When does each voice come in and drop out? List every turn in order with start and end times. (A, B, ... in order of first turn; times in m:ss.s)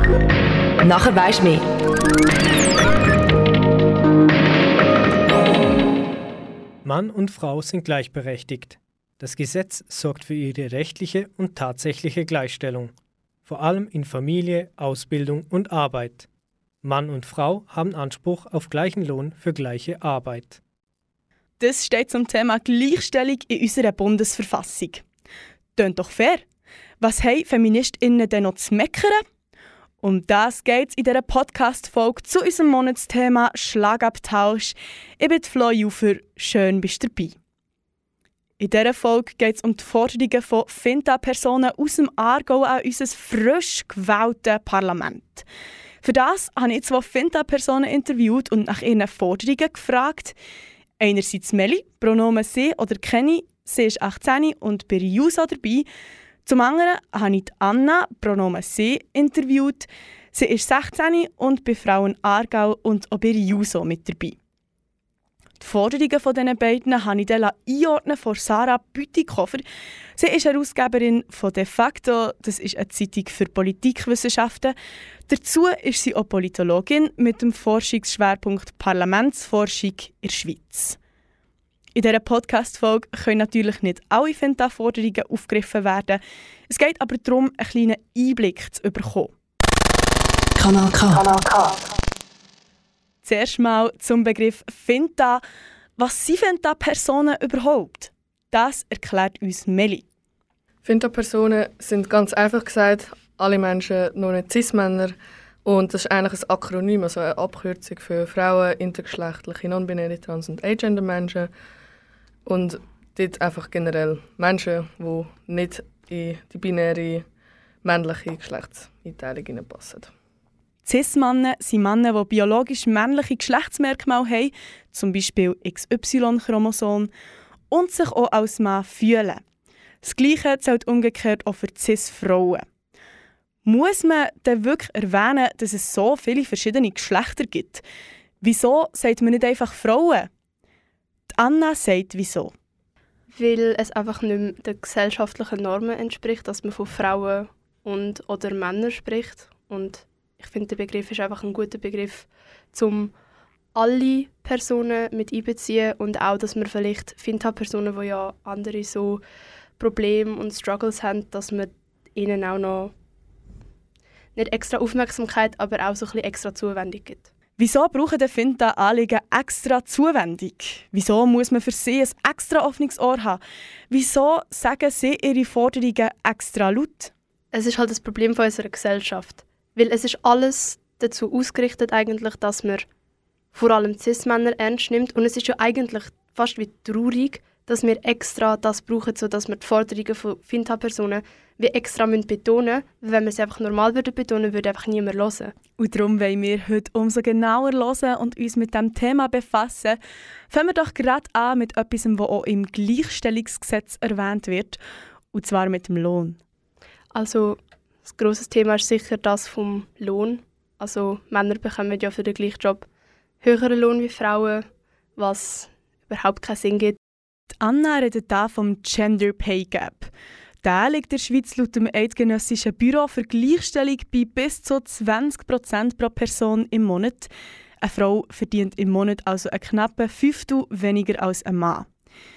0:00.8-0:01.7 A
0:06.8-0:16.3 B
0:16.8-0:20.6 B
0:21.6-0:25.0 C
0:25.8-0:26.4 C
0:27.0-0:29.2 C
0:30.0-0:37.4 C
0:38.6-0:45.4 C
0:46.0-0:50.4 C
0:51.0-0:55.9 C
0:56.4-1:04.4 C
1:05.6-1:09.6 C
1:10.2-1:14.7 C
1:15.3-1:21.0 C
1:22.0-1:29.3 C
1:30.6-1:31.8 A
1:33.2-1:35.4 C
1:36.0-1:40.0 C
1:40.8-1:51.5 D
1:52.5-1:57.3 D
1:57.8-2:00.1 D
2:00.8-2:07.1 C
2:07.7-2:09.4 C
2:10.0-2:12.6 C
2:13.6-2:17.8 C
2:18.4-2:20.3 C
2:21.3-2:22.5 C
2:23.3-2:33.1 E
2:33.8-2:39.2 E
2:39.8-2:42.9 E
2:44.4-2:47.2 E
2:47.6-2:57.1 C
2:57.5-3:02.8 E
3:03.5-3:15.5 E
3:15.8-3:20.0 C
3:20.5-3:24.8 C
3:25.3-3:26.4 C
3:27.2-3:32.9 E
3:33.4-3:34.6 E
3:35.2-3:37.0 E
3:37.6-3:40.1 C
3:40.6-3:47.3 C
3:47.8-3:51.9 C